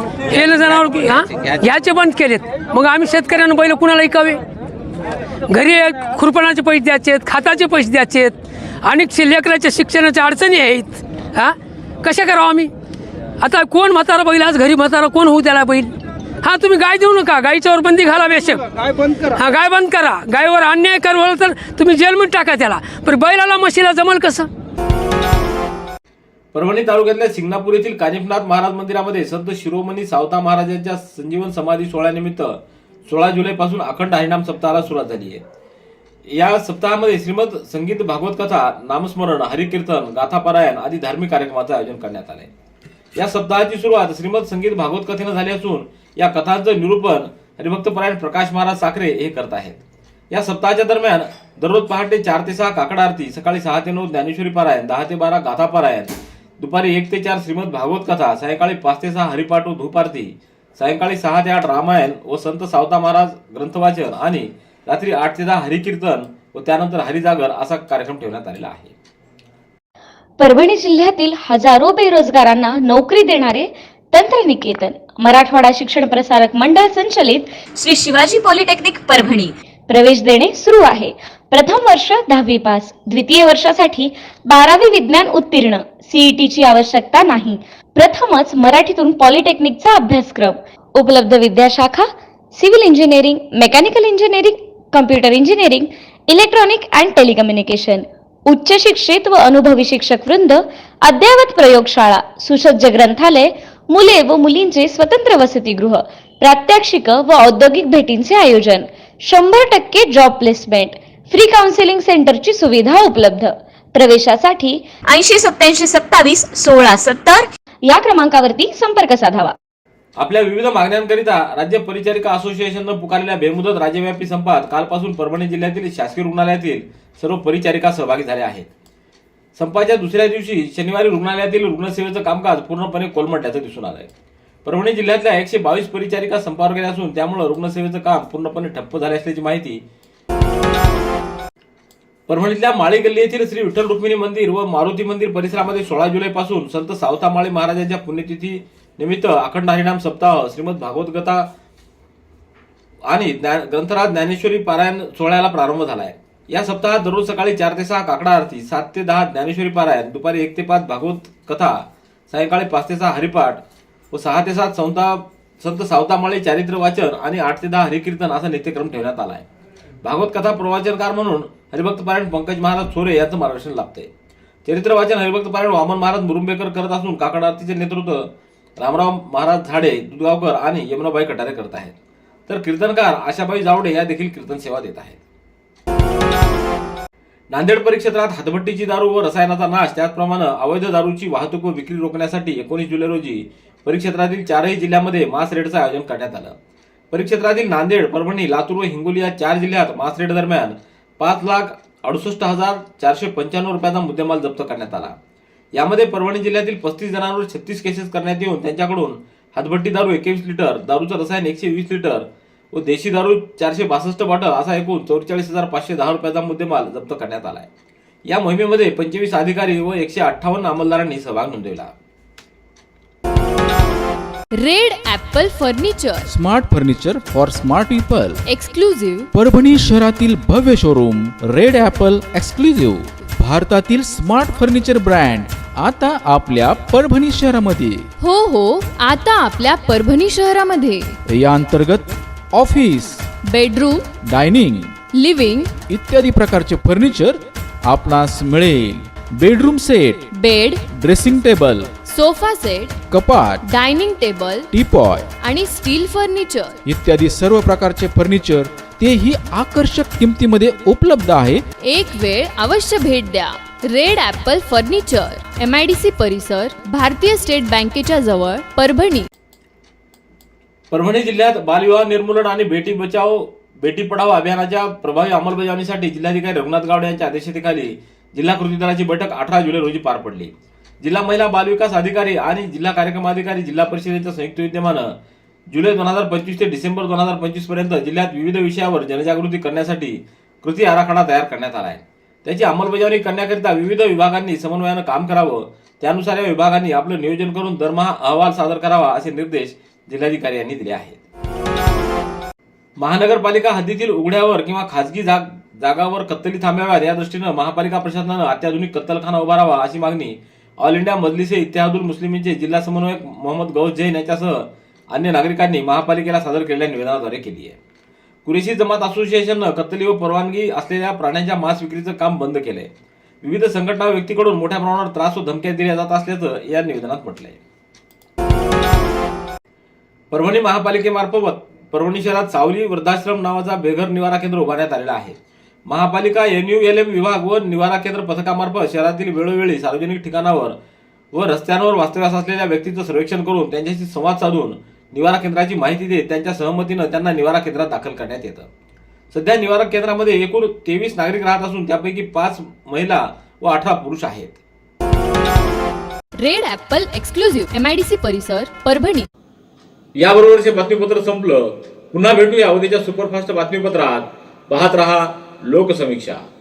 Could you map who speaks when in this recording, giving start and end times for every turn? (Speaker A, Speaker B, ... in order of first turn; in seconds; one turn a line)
Speaker A: 0.6-1.0
Speaker A: 1.7-4.4
Speaker A: 5.5-8.3
Speaker A: 8.9-11.5
Speaker A: 12.1-12.7
Speaker A: 13.4-15.9
Speaker A: 16.4-18.6
Speaker A: 19.4-24.5
Speaker B: 26.5-35.4
Speaker B: 36.3-42.5
Speaker B: 43.2-49.8
Speaker B: 50.3-68.9
Speaker C: 70.4-119.5
Speaker B: 120.2-128.7
Speaker B: 129.6-134.1
Speaker B: 134.7-139.8
Speaker B: 142.3-151.4
Speaker B: 153.1-163.6
Speaker B: 164.1-169.5
Speaker B: 170.0-174.1
Speaker B: 174.7-178.3
Speaker B: 178.8-181.9
Speaker B: 182.5-185.2
Speaker B: 187.5-196.6
Speaker B: 197.1-205.1
Speaker B: 205.8-217.7
Speaker B: 218.3-221.9
Speaker D: 224.6-226.3
Speaker E: 226.2-228.4
Speaker D: 228.5-229.3
Speaker E: 229.3-238.1
Speaker D: 238.2-241.2
Speaker E: 241.3-243.3
Speaker D: 243.5-244.1
Speaker E: 244.2-245.0
Speaker D: 245.1-245.8
Speaker E: 245.8-250.2
Speaker D: 250.4-250.8
Speaker E: 250.9-252.0
Speaker D: 252.1-253.0
Speaker E: 253.1-253.7
Speaker D: 253.6-254.7
Speaker E: 254.7-255.3
Speaker D: 255.4-256.8
Speaker E: 256.9-261.6
Speaker D: 261.8-269.3
Speaker B: 270.9-285.1
Speaker B: 285.7-301.2
Speaker B: 303.0-317.8
Speaker B: 318.5-322.9
Speaker B: 323.4-327.6
Speaker B: 330.3-335.4
Speaker B: 335.9-340.8
Speaker B: 341.3-348.7
Speaker B: 349.3-354.6
Speaker D: 356.4-359.3
Speaker B: 360.2-366.4